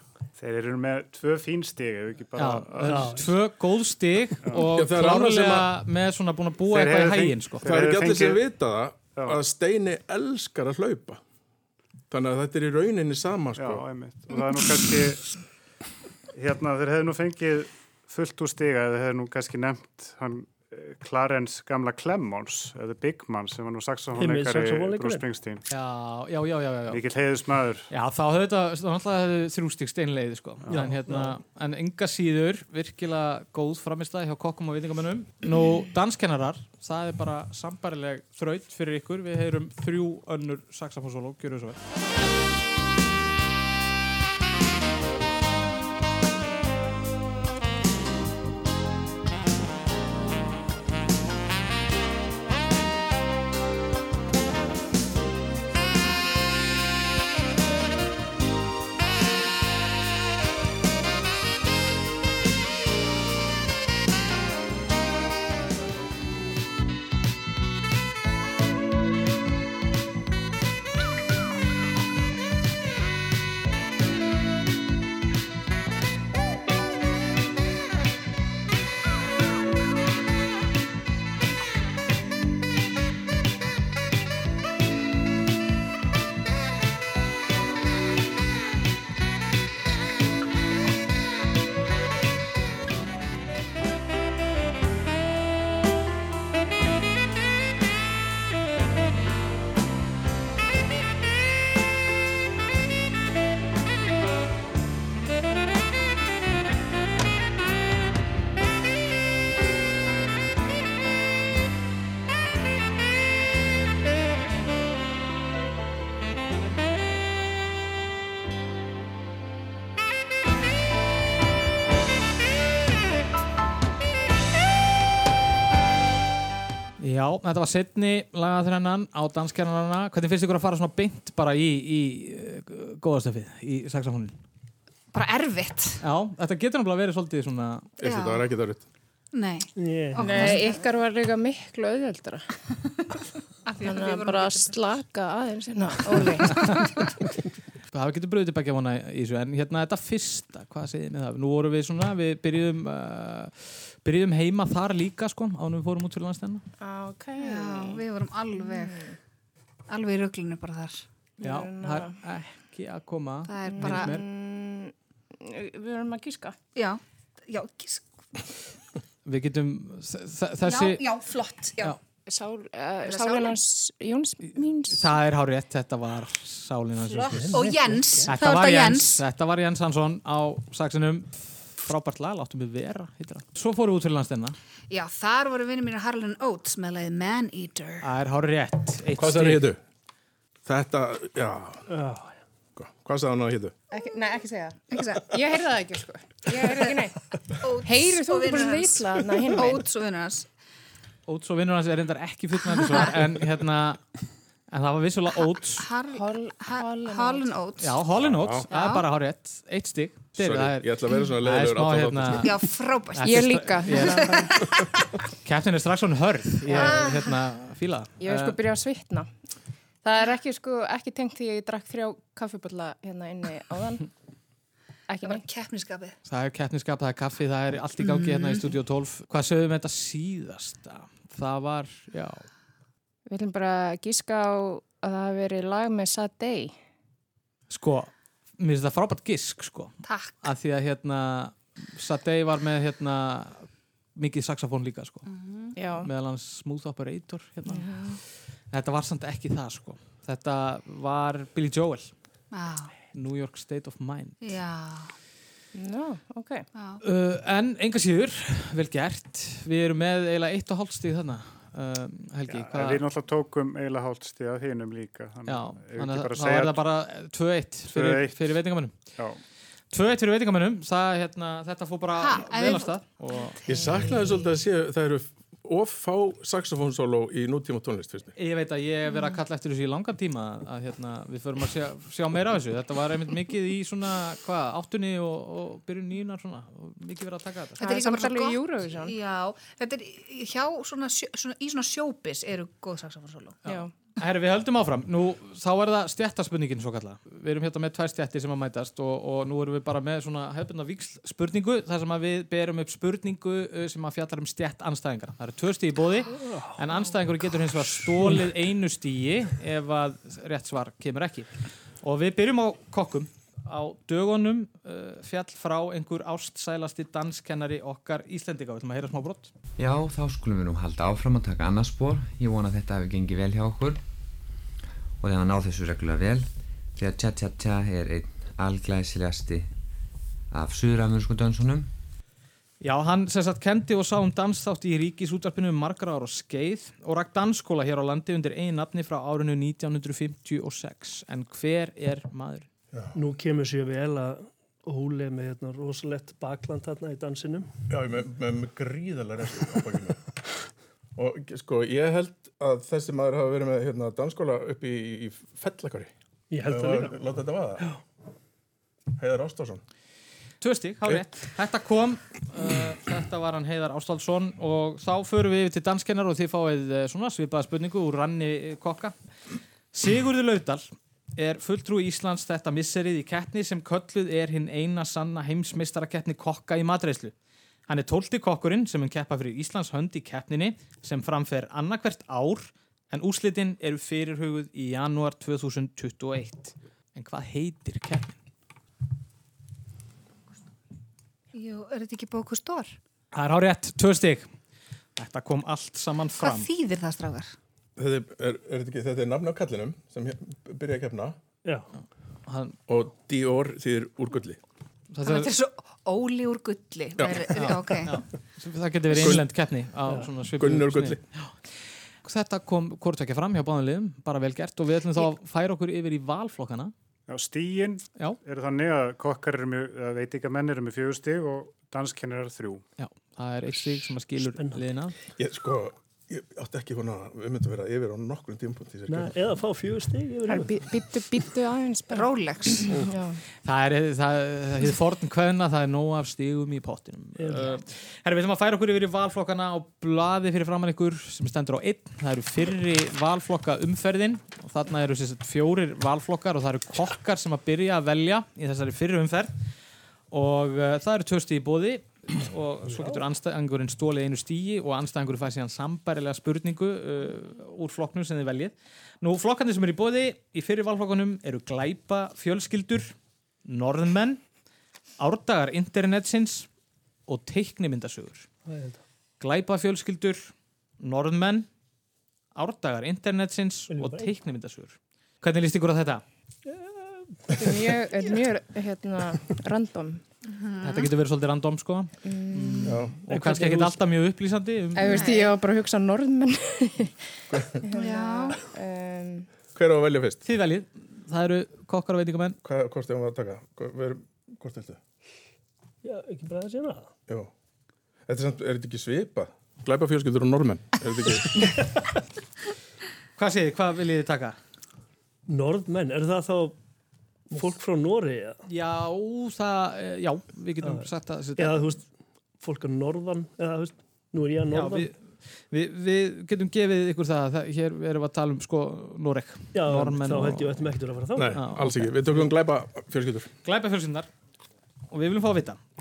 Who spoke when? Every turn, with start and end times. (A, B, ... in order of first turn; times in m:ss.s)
0:00.4-0:03.2 A
0:02.4-0:07.6 B
0:02.8-0:03.3 C
0:04.7-0:05.7 D
0:06.7-0:08.4 A
0:07.7-0:11.2 D
0:09.1-0:09.4 A
0:12.1-0:13.8 D
0:13.6-0:15.4 A
0:16.3-0:25.6 A
0:24.2-0:25.2 C
0:25.7-0:27.0 B
0:26.9-0:27.9 A
0:27.9-0:41.8 B
0:30.7-0:31.1 A
0:30.8-0:31.3 C
2:07.0-2:14.4 B
2:15.1-2:16.0 E
2:16.0-2:17.9 B
2:18.0-2:18.8 D
2:18.0-2:18.5 E
2:19.3-2:20.9 E
2:19.8-2:20.5 C
2:20.2-2:22.5 F
2:23.7-2:24.8 E
2:23.8-2:26.7 F
2:26.0-2:27.1 E
2:27.9-2:36.6 B
2:36.8-2:38.0 F
2:37.4-2:39.1 E
2:38.6-2:39.2 F
2:39.9-2:41.0 E
2:41.4-2:42.2 F
2:41.4-2:44.2 B
2:43.5-2:44.1 E
2:43.7-2:46.6 F
2:46.8-2:48.5 E
2:49.2-2:51.0 B
2:50.6-2:52.0 E
2:52.3-2:55.2 F
2:53.0-2:53.6 E
2:54.5-2:57.5 B
2:57.0-2:59.2 E
2:57.3-2:58.4 C
2:58.3-3:04.6 B
3:04.9-3:08.1 E
3:08.0-3:09.6 B
3:09.2-3:09.8 D
3:10.7-3:11.8 D
3:11.9-3:12.4 C
3:12.8-3:13.7 D
3:13.9-3:19.9 F
3:14.9-3:15.6 E
3:16.5-3:17.0 E
3:17.6-3:20.5 E
3:21.3-3:24.1 B
3:22.6-3:23.1 E
3:24.7-3:25.9 B
3:25.7-3:28.0 E
3:26.1-3:27.5 F
3:27.8-3:34.3 B
3:28.2-3:28.6 D
3:28.7-3:29.0 E
3:30.4-3:32.5 D
3:32.4-3:34.8 E
3:33.2-3:34.8 F
3:35.4-3:38.6 B
3:36.7-3:37.1 F
3:36.7-3:37.3 E
3:38.2-3:39.3 F
3:40.0-3:44.1 F
3:45.1-3:45.4 F
3:45.2-3:46.2 E
3:46.3-3:52.4 B
3:48.0-3:48.7 E
3:53.3-3:56.8 F
3:57.7-4:05.3 B
4:00.0-4:00.4 E
4:05.3-4:05.8 E
4:05.8-4:06.1 F
4:06.0-4:12.1 B
4:07.7-4:08.2 F
4:12.5-4:13.0 E
4:13.1-4:14.5 B
4:14.4-4:15.2 E
4:15.7-4:16.7 F
4:16.7-4:17.0 E
4:17.0-4:23.0 B
4:22.5-4:26.8 A
4:25.5-4:29.2 B
4:27.9-4:29.4 A
4:29.9-4:33.6 B
4:32.2-4:34.5 E
4:33.6-4:38.4 D
4:38.4-4:47.8 B
4:47.8-4:53.6 E
4:47.8-4:49.2 F
4:53.6-4:53.9 F
4:53.6-5:19.5 B
5:06.3-5:07.0 C
5:19.8-5:24.0 G
5:25.2-5:29.7 G
5:30.5-5:31.9 G
5:32.8-5:42.7 B
5:43.1-5:47.7 C
5:47.9-5:50.3 D
5:51.2-5:56.1 D
5:56.5-5:57.2 C
5:56.6-5:57.8 D
5:59.2-5:59.8 D
6:00.6-6:09.1 B
6:09.9-6:17.3 B
6:17.9-6:28.4 B
6:31.5-6:33.0 E
6:33.3-6:34.5 B
6:35.2-6:36.7 B
6:36.4-6:37.5 E
6:38.0-6:41.4 D
6:42.0-6:42.8 B
6:42.9-6:44.6 D
6:45.1-6:45.5 B
6:45.2-6:48.3 E
6:47.2-6:47.5 D
6:47.6-6:56.9 B
6:49.2-6:49.5 D
6:50.6-6:51.2 D
6:57.3-7:02.8 A
7:03.0-7:05.2 B
7:04.5-7:04.8 C
7:05.4-7:09.4 D
7:09.1-7:10.8 C
7:10.5-7:13.4 F
7:12.1-7:13.0 E
7:13.6-7:29.5 B
7:17.4-7:17.8 C
7:30.3-7:43.1 B
7:32.9-7:33.3 C
7:43.7-7:44.4 B
7:45.2-7:46.7 B
7:47.3-7:48.5 B
7:48.6-7:49.0 C
7:49.4-7:51.7 B
7:52.6-7:56.2 B
7:53.9-7:54.3 C
7:56.6-7:57.6 C
7:57.6-8:00.2 F
8:00.5-8:01.1 E
8:00.8-8:05.1 B
8:02.2-8:03.0 F
8:02.9-8:03.2 D
8:03.3-8:04.0 C
8:04.9-8:07.3 F
8:05.0-8:05.6 E
8:07.5-8:07.8 D
8:07.8-8:09.5 F
8:07.9-8:08.6 E
8:09.8-8:10.4 D
8:10.4-8:12.6 B
8:12.6-8:15.0 D
8:16.0-8:17.1 C
8:18.3-8:21.8 D
8:23.4-8:24.6 B
8:25.5-8:26.8 C
8:27.5-8:28.6 C
8:28.7-8:32.0 B
8:31.6-8:35.1 C
8:34.7-8:40.9 B
8:39.7-8:42.5 C
8:41.4-8:43.5 D
8:41.5-8:42.4 B
8:43.6-8:44.3 B
8:45.1-8:45.8 B